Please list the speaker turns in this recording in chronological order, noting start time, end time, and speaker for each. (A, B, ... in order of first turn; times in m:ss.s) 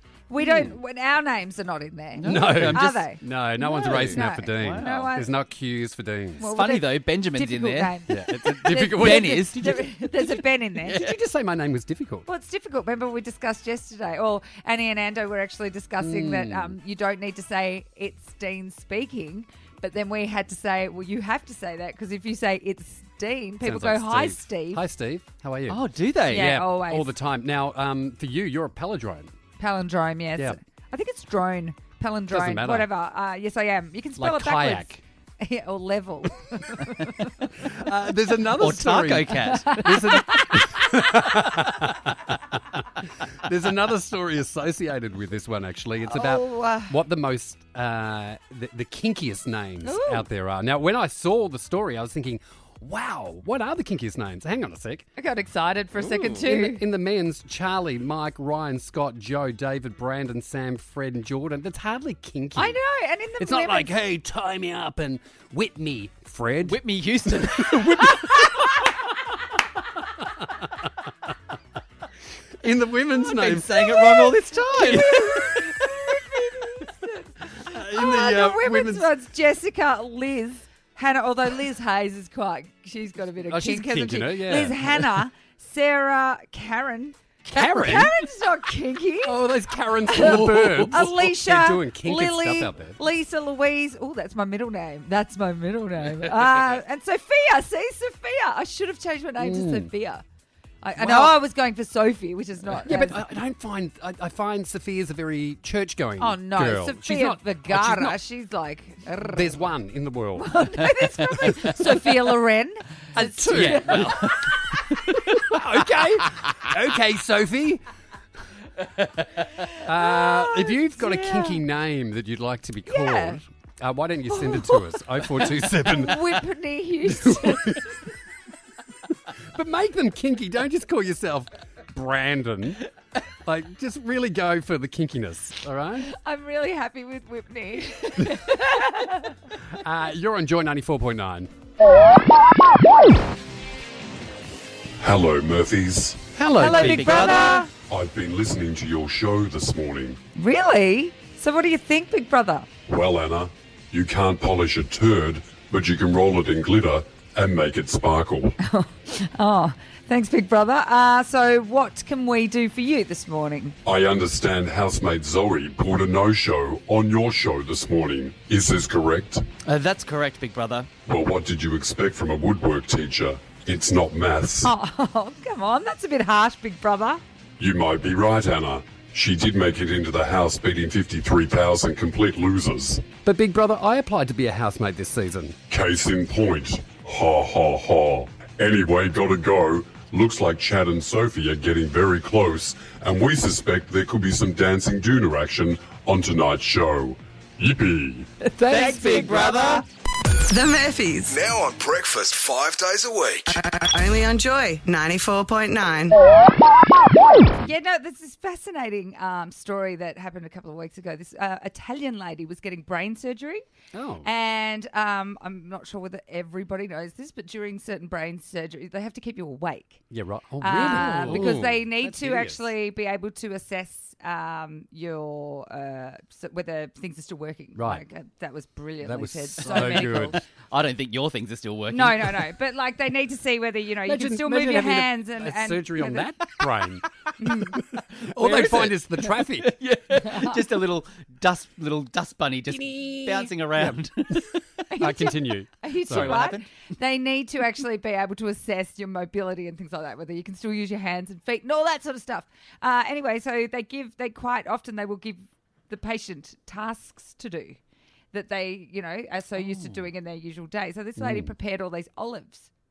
0:00.3-0:05.3 A
0:00.4-0:00.8 B
0:02.2-0:02.9 C
0:02.2-0:06.5 B
0:03.7-0:05.1 C
0:06.4-0:11.0 A
0:06.5-0:09.7 C
0:08.1-0:12.3 B
0:10.9-0:11.1 C
0:12.2-0:24.8 A
0:16.0-0:16.8 B
0:23.6-0:29.3 B
0:25.7-0:26.5 C
0:26.3-0:27.1 A
0:29.6-0:37.4 A
0:32.3-0:32.9 B
0:34.2-0:35.0 B
0:37.6-0:55.0 B
0:38.6-0:40.4 C
0:46.0-0:47.0 A
0:49.8-0:50.2 A
0:55.2-0:56.8 A
0:56.0-1:02.8 B
1:02.6-1:04.0 A
1:03.4-1:08.9 B
1:06.6-1:08.6 C
1:12.6-1:15.8 B
1:13.2-1:15.4 C
1:14.9-1:29.4 A
1:17.5-1:19.1 B
1:23.5-1:25.2 B
1:27.5-1:28.1 B
1:29.2-1:33.0 B
1:30.1-1:40.2 A
1:39.4-1:39.9 B
1:40.8-1:43.2 A
1:41.0-1:41.3 B
1:42.8-1:48.2 B
1:46.2-1:49.6 A
1:49.2-1:51.9 B
1:50.4-1:55.2 A
1:53.1-1:57.8 B
1:53.6-1:54.7 C
1:59.6-2:01.6 A
1:59.8-2:06.4 B
2:02.9-2:03.4 A
2:04.3-2:04.8 A
2:05.9-2:07.9 A
2:07.0-2:07.9 B
2:09.5-2:12.8 B
2:13.4-2:16.1 B
2:16.0-2:19.4 A
2:19.8-2:21.5 B
2:25.0-2:26.2 D
2:26.2-2:27.4 B
2:26.6-2:27.7 A
2:26.7-2:27.5 C
2:27.9-2:30.2 D
2:30.4-2:32.7 A
2:32.9-2:38.5 D
2:38.6-2:43.8 A
2:43.8-2:49.4 D
2:49.6-2:50.9 C
2:51.1-2:54.5 D
2:53.7-2:54.7 B
2:54.6-2:57.2 A
2:57.6-3:03.0 D
3:03.1-3:05.6 B
3:05.7-3:18.2 D
3:18.6-3:19.8 C
3:18.7-3:19.0 A
3:20.4-3:21.4 E
3:21.3-3:23.4 F
3:23.5-3:26.2 E
3:27.6-3:33.6 A
3:33.9-3:34.3 B
3:34.2-3:40.0 A
3:40.1-3:42.7 B
3:40.6-3:50.4 A
3:40.8-3:41.6 C
3:47.8-3:48.0 B
3:49.0-3:50.4 B
3:49.6-3:52.5 C
3:51.9-3:56.3 A
3:54.0-3:59.8 B
3:57.4-3:57.8 A
3:58.4-4:04.6 C
4:00.2-4:00.5 A
4:02.9-4:04.4 B
4:04.9-4:17.8 A
4:05.0-4:06.5 B
4:06.0-4:06.6 C
4:18.3-4:22.7 A
4:19.6-4:20.0 C
4:21.2-4:21.5 B